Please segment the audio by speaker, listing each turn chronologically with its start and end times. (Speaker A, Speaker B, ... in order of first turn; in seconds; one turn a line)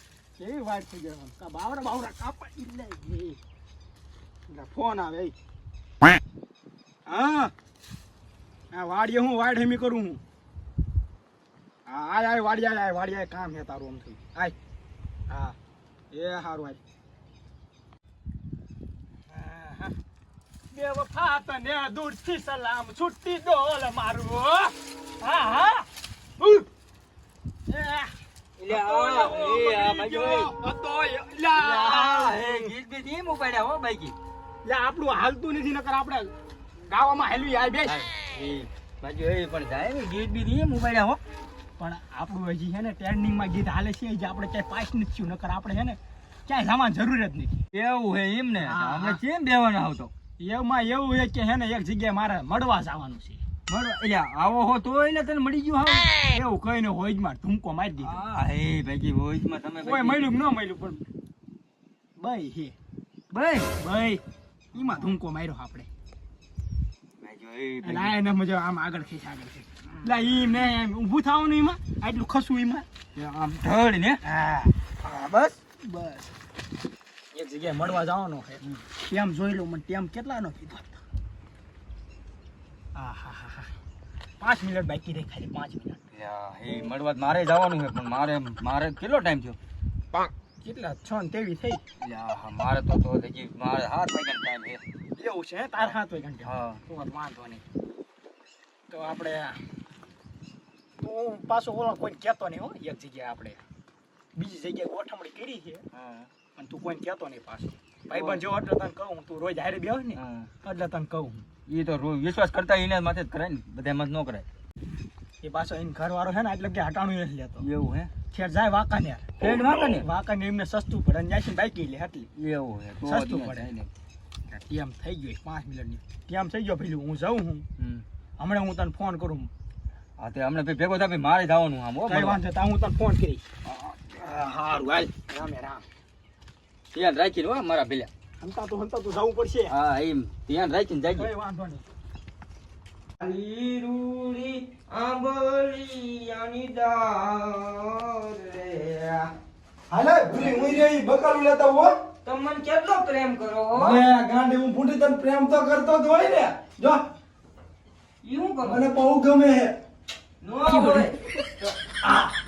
Speaker A: 0.4-3.4
Speaker A: 4.5-5.3
Speaker A: 7.1-7.5
Speaker A: 8.7-10.2
Speaker A: 11.9-14.6
Speaker A: 15.3-15.6
Speaker A: 16.1-16.8
Speaker A: 19.3-19.9
Speaker A: 20.7-25.9
Speaker A: 26.4-26.7
Speaker A: 27.7-28.1
Speaker B: 28.6-30.6
Speaker A: 28.7-32.7
Speaker B: 31.5-34.2
Speaker A: 34.6-38.0
Speaker B: 37.9-41.2
Speaker A: 41.8-47.6
Speaker B: 47.7-50.1
Speaker A: 48.6-49.2
Speaker A: 50.4-53.4
Speaker B: 53.7-56.1
Speaker A: 56.3-58.2
Speaker B: 58.0-60.3
Speaker A: 59.8-61.0
Speaker A: 62.2-62.8
Speaker B: 63.3-63.7
Speaker A: 63.8-64.2
Speaker A: 64.7-65.9
Speaker B: 67.2-68.2
Speaker A: 67.8-72.9
Speaker B: 73.2-74.2
Speaker A: 74.2-76.3
Speaker A: 77.3-81.0
Speaker A: 82.9-83.7
Speaker A: 84.4-86.0
Speaker B: 86.1-89.6
Speaker A: 90.6-91.8
Speaker B: 92.0-94.8
Speaker A: 95.2-97.6
Speaker B: 96.5-96.8
Speaker A: 98.9-99.6
Speaker A: 101.0-103.6
Speaker A: 104.3-105.8
Speaker B: 105.9-106.3
Speaker A: 106.6-111.5
Speaker B: 108.1-108.4
Speaker B: 110.2-110.5
Speaker B: 111.7-114.5
Speaker A: 115.4-117.7
Speaker B: 117.6-118.1
Speaker A: 118.3-122.3
Speaker B: 119.4-120.1
Speaker B: 122.4-123.9
Speaker A: 123.0-123.7
Speaker A: 124.5-127.7
Speaker B: 127.8-128.1
Speaker A: 128.4-129.5
Speaker B: 130.2-132.4
Speaker A: 132.1-133.5
Speaker A: 134.0-135.9
Speaker B: 136.9-138.1
Speaker A: 138.4-139.7
Speaker B: 139.7-141.3
Speaker A: 141.1-141.8
Speaker C: 143.2-149.3
Speaker D: 149.9-151.9
Speaker C: 150.3-150.8
Speaker C: 152.2-154.0
Speaker D: 153.8-157.0
Speaker C: 158.2-158.9
Speaker D: 158.7-159.8
Speaker C: 160.4-161.8
Speaker A: 162.0-162.3